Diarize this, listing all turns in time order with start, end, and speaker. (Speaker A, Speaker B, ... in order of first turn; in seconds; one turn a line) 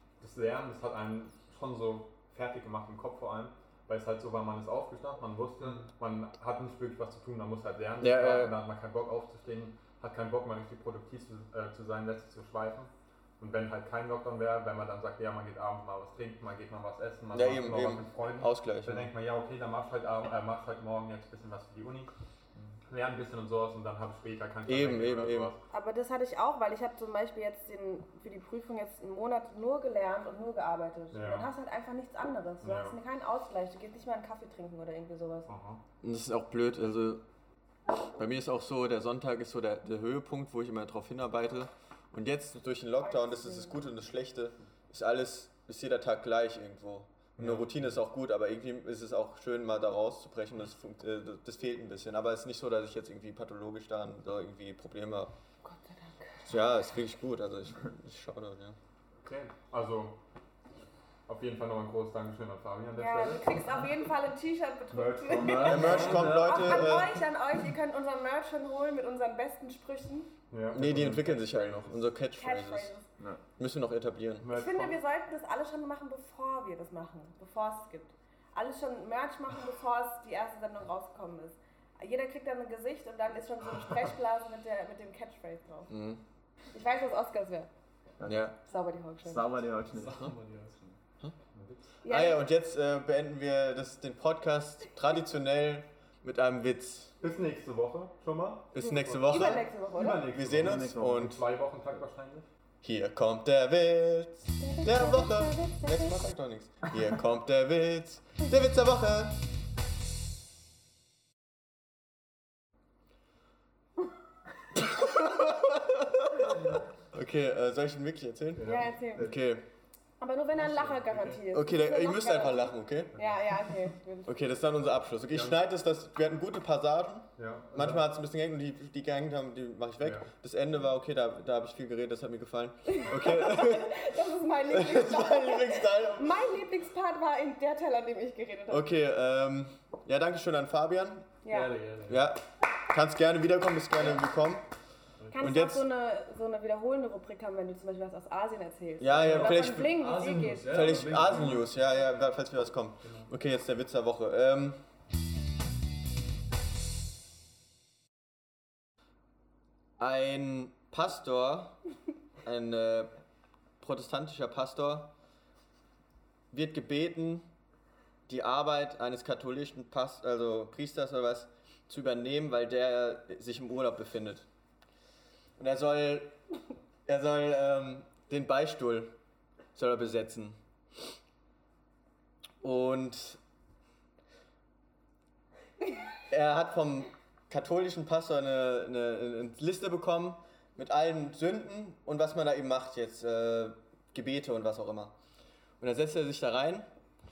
Speaker A: 0.2-22.1
Speaker B: 8.0-8.6
Speaker B: 17.3-19.1
Speaker A: 22.9-25.6
Speaker B: 24.7-25.5
Speaker C: 25.7-35.5
Speaker A: 31.1-31.5
Speaker A: 32.6-33.0
Speaker A: 35.5-35.8
Speaker B: 36.0-37.2
Speaker B: 38.1-55.3
Speaker C: 43.0-43.8
Speaker A: 47.4-47.9
Speaker C: 55.6-56.5
Speaker B: 56.5-58.8
Speaker A: 59.2-60.2
Speaker A: 61.3-63.6
Speaker C: 62.9-70.3
Speaker A: 64.9-66.3
Speaker D: 65.3-67.0
Speaker B: 65.6-67.2
Speaker A: 70.5-72.0
Speaker B: 70.7-72.9
Speaker C: 72.3-73.1
Speaker B: 73.6-74.5
Speaker A: 74.4-75.0
Speaker C: 74.5-85.9
Speaker B: 85.9-86.2
Speaker C: 86.7-87.7
Speaker D: 88.2-88.5
Speaker B: 88.2-88.5
Speaker C: 88.7-89.6
Speaker D: 89.2-90.3
Speaker E: 89.8-91.0
Speaker C: 92.0-92.5
Speaker B: 92.0-97.2
Speaker A: 97.2-102.5
Speaker B: 98.7-99.7
Speaker C: 99.1-100.3
Speaker B: 100.3-101.4
Speaker D: 100.5-101.4
Speaker B: 102.8-109.4
Speaker C: 104.6-106.2
Speaker B: 114.8-119.7
Speaker A: 118.6-119.3
Speaker C: 118.6-119.4
Speaker C: 120.2-124.3
Speaker A: 120.6-121.4
Speaker B: 121.5-123.2
Speaker A: 123.1-123.8
Speaker B: 124.3-134.0
Speaker A: 125.3-125.6
Speaker A: 127.4-128.1
Speaker A: 130.0-130.3
Speaker C: 132.9-138.9
Speaker B: 134.7-136.3
Speaker B: 138.7-141.3
Speaker C: 141.4-141.7
Speaker E: 141.5-142.3
Speaker B: 142.1-144.7
Speaker E: 145.2-145.5
Speaker C: 145.3-151.0
Speaker B: 145.4-145.9
Speaker B: 149.0-149.9
Speaker E: 149.1-151.7
Speaker B: 150.7-154.8
Speaker B: 160.0-161.8
Speaker B: 162.4-163.1
Speaker B: 163.8-165.1
Speaker B: 166.5-167.5
Speaker B: 168.3-174.5
Speaker B: 175.6-176.3
Speaker B: 177.1-179.2
Speaker B: 179.8-180.6
Speaker B: 182.6-183.4
Speaker B: 186.3-195.2
Speaker B: 195.8-196.9